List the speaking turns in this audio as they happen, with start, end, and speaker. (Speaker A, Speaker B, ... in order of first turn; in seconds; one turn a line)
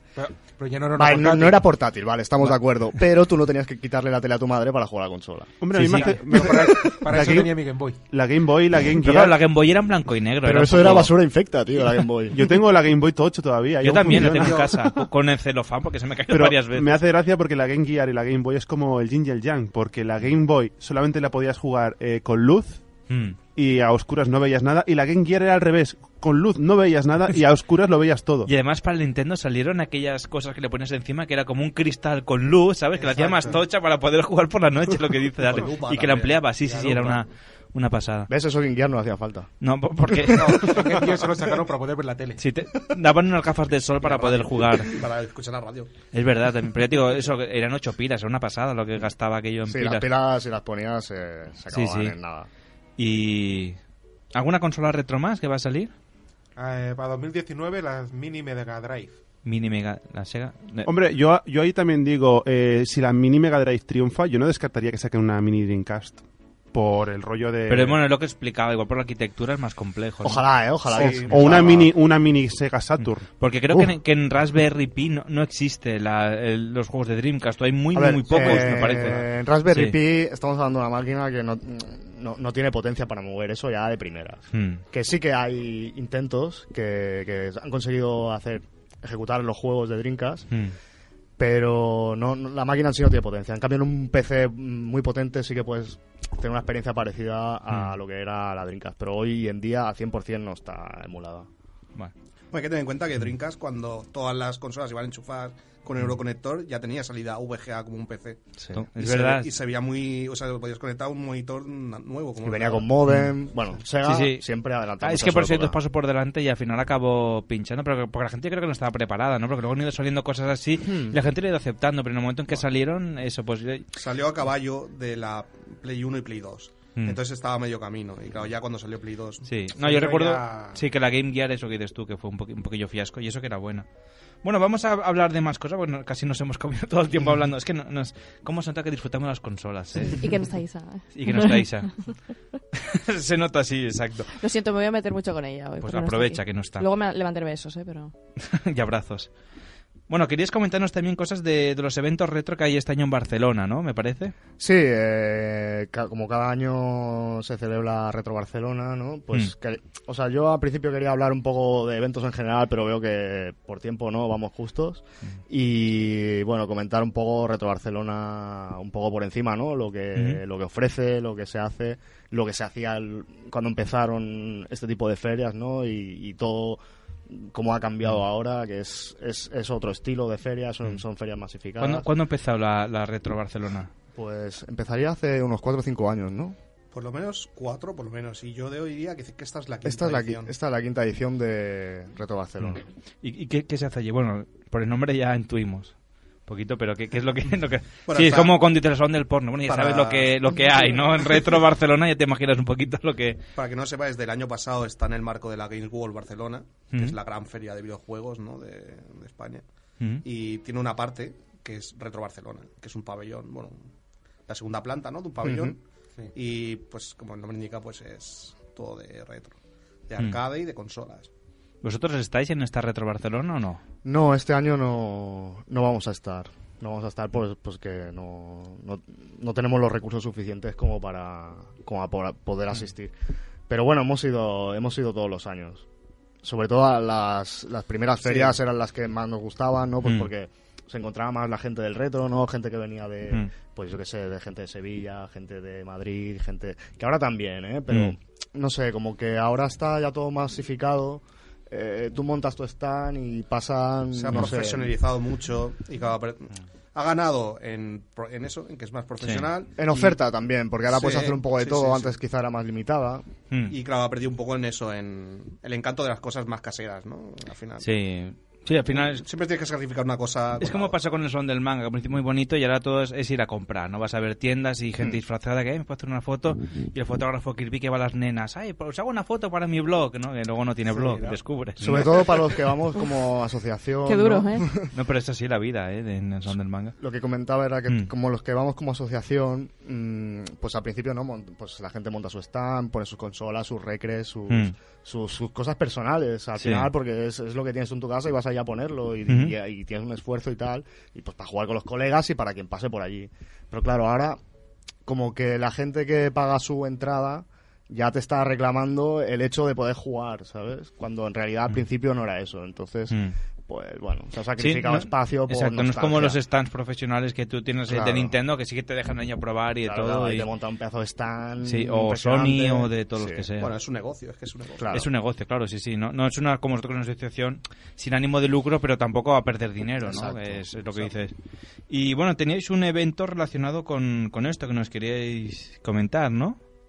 Speaker A: 0.2-1.7
Speaker B: 0.9-5.7
Speaker C: 5.6-9.4
Speaker D: 5.7-6.3
Speaker A: 6.3-8.0
Speaker B: 6.3-7.1
Speaker D: 9.0-11.2
Speaker B: 10.4-12.5
Speaker C: 12.3-14.9
Speaker D: 13.8-17.1
Speaker A: 14.3-14.7
Speaker C: 16.3-22.8
Speaker D: 23.1-23.4
Speaker C: 23.6-28.5
Speaker D: 28.4-38.3
Speaker A: 32.9-33.6
Speaker E: 35.5-36.4
Speaker A: 36.5-37.2
Speaker B: 38.3-39.5
Speaker D: 39.6-41.0
Speaker A: 40.3-42.4
Speaker D: 42.4-45.0
Speaker E: 44.0-45.9
Speaker D: 46.1-50.1
Speaker B: 49.7-52.5
Speaker D: 51.7-52.2
Speaker D: 53.0-53.8
Speaker D: 54.3-55.9
Speaker A: 56.5-59.2
Speaker D: 59.5-60.9
Speaker C: 60.8-66.2
Speaker C: 66.7-68.0
Speaker D: 67.7-71.4
Speaker B: 70.2-71.9
Speaker E: 71.0-71.3
Speaker C: 71.0-73.3
Speaker D: 73.0-80.0
Speaker B: 77.9-90.5
Speaker A: 78.3-79.2
Speaker D: 84.5-84.8
Speaker B: 91.4-101.5
Speaker D: 97.7-98.0
Speaker E: 102.5-108.4
Speaker D: 108.7-109.5
Speaker E: 109.0-112.9
Speaker B: 112.4-115.8
Speaker D: 113.1-113.3
Speaker D: 114.0-114.5
Speaker D: 115.0-123.9
Speaker B: 120.8-121.2
Speaker E: 124.0-129.4
Speaker D: 129.4-133.9
Speaker A: 129.7-130.8
Speaker D: 134.4-140.3
Speaker F: 140.1-141.6
Speaker D: 141.1-142.2
Speaker D: 142.7-144.3
Speaker F: 144.4-148.1
Speaker D: 145.8-146.9
Speaker D: 148.4-149.3
Speaker D: 150.1-154.3
Speaker B: 154.6-182.1
Speaker D: 170.1-170.4
Speaker D: 181.8-183.9
Speaker B: 184.1-186.6
Speaker E: 186.9-190.5
Speaker B: 189.8-192.8
Speaker D: 192.6-195.9
Speaker D: 196.5-203.4
Speaker E: 198.1-198.6
Speaker E: 199.6-201.4
Speaker E: 203.6-209.6
Speaker D: 206.9-207.2
Speaker E: 210.2-213.9
Speaker E: 214.5-215.8
Speaker B: 215.4-215.8
Speaker E: 216.3-219.6
Speaker E: 220.1-221.3
Speaker D: 221.8-223.8
Speaker B: 224.1-233.1
Speaker B: 233.7-235.8
Speaker B: 236.4-255.0
Speaker E: 238.2-238.6
Speaker D: 240.0-240.3
Speaker E: 254.1-259.7
Speaker D: 259.2-259.5
Speaker B: 259.8-263.2
Speaker E: 260.9-262.2
Speaker D: 263.5-263.8
Speaker E: 263.7-267.9
Speaker D: 267.8-269.3
Speaker E: 268.9-270.9
Speaker D: 270.6-282.3
Speaker B: 281.8-284.9
Speaker F: 284.1-284.7
Speaker D: 284.9-287.0
Speaker B: 287.0-304.4
Speaker D: 294.5-294.7
Speaker D: 296.6-296.9
Speaker D: 299.3-299.6
Speaker B: 305.1-316.4
Speaker D: 314.6-320.5
Speaker B: 317.9-318.3
Speaker B: 319.8-323.5
Speaker D: 321.6-323.7
Speaker E: 323.6-324.9
Speaker B: 324.8-325.1
Speaker D: 324.9-331.3
Speaker B: 330.0-330.7
Speaker D: 331.9-336.6